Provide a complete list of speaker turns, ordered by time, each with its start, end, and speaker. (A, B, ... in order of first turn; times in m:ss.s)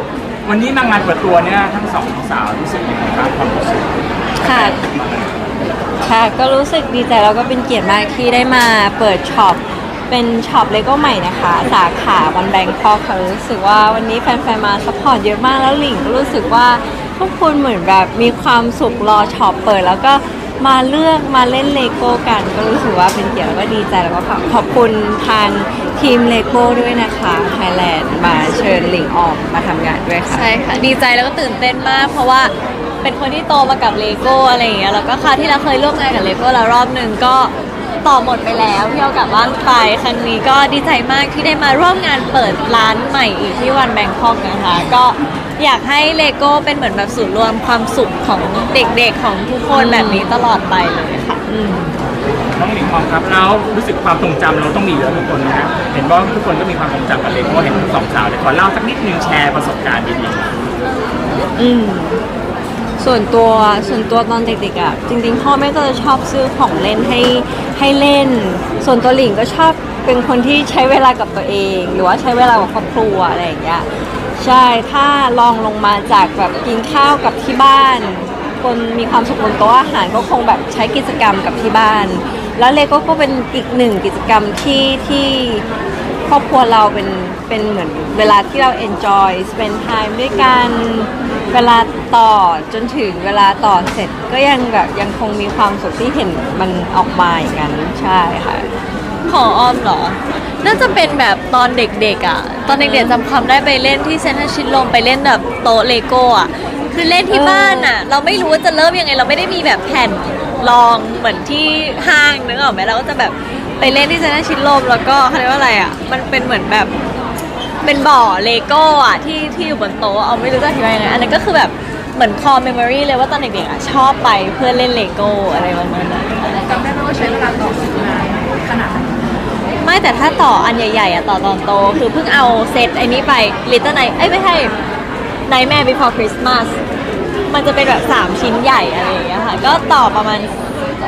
0:00.4-0:06.2 A
0:04.4-0:04.8 B
0:06.0-0:30.5 B
0:30.3-0:37.5 C
0:38.0-0:51.4 C
0:49.7-0:50.3 B
0:51.5-0:51.9 B
0:52.6-1:00.7 A
1:01.6-1:02.2 B
1:03.0-1:13.8 B
1:14.4-1:25.6 B
1:26.3-1:38.7 B
1:39.3-1:56.9 C
1:42.7-1:43.2 B
1:47.3-1:47.9 B
1:57.8-2:06.7 C
2:06.6-2:09.2 D
2:09.8-2:14.7 C
2:15.5-2:16.8 C
2:17.5-2:20.6 C